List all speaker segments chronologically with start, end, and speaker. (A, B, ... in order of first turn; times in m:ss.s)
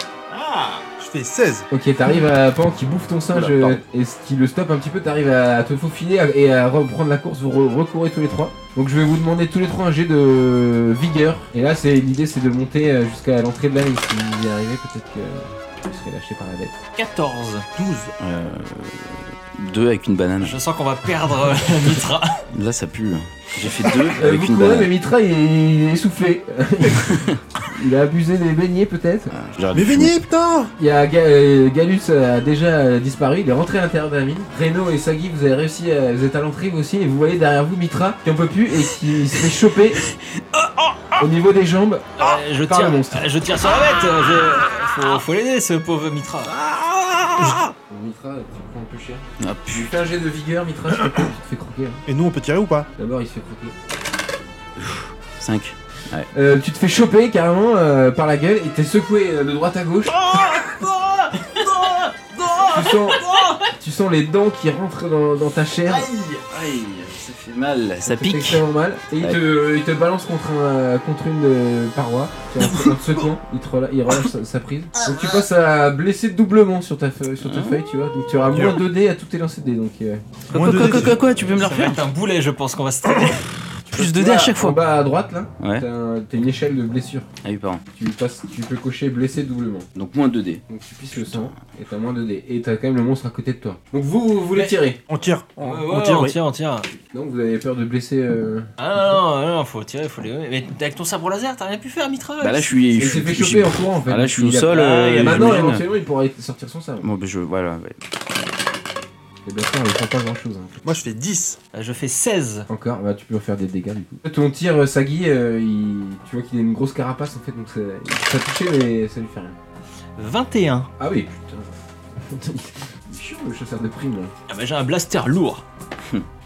0:00.3-0:00.9 A
0:01.0-0:01.7 B
0:01.7-0:16.8 C
0:03.3-0:03.8 D
0:17.0-0:17.7 A
0:17.8-0:18.1 B
0:18.2-0:20.6 D
0:20.4-0:22.4 A
0:22.5-0:24.9 D
0:24.2-0:29.3 C
0:27.1-0:27.4 D
0:29.3-0:30.2 D
0:29.7-0:30.7 B
0:30.8-0:40.0 C
0:40.6-0:41.1 A
0:41.2-0:43.3 C
0:42.2-0:46.6 A
0:46.5-0:47.7 D
0:47.9-0:52.0 C
0:49.4-0:49.9 D
0:52.1-0:52.9 B
0:53.0-0:53.8 C
0:54.8-0:56.3 D
0:56.3-1:00.2 C
1:00.1-1:03.7 A
1:02.6-1:06.1 C
1:05.9-1:06.5 A
1:06.5-1:08.6 D
1:08.1-1:21.1 C
1:12.6-1:13.0 A
1:15.0-1:15.4 A
1:17.4-1:17.8 D
1:18.5-1:18.8 B
1:20.5-1:22.0 D
1:20.5-1:21.2 B
1:20.9-1:23.5 A
1:23.9-1:27.3 C
1:23.9-1:24.8 D
1:25.6-1:25.8 D
1:27.4-1:27.8 D
1:28.0-1:29.9 C
1:30.0-1:30.6 D
1:30.7-1:35.0 C
1:31.1-1:31.6 D
1:35.1-1:36.4 B
1:35.6-1:36.9 A
1:37.1-1:39.2 C
1:38.8-1:42.8 A
1:42.4-1:45.9 D
1:43.0-1:47.1 C
1:44.7-1:45.8 A
1:47.0-1:48.0 D
1:49.4-1:50.8 C
1:50.8-1:51.6 B
1:51.7-1:52.7 A
1:52.7-1:59.6 C
2:00.2-2:00.9 A
2:01.0-2:04.3 C
2:04.5-2:05.6 A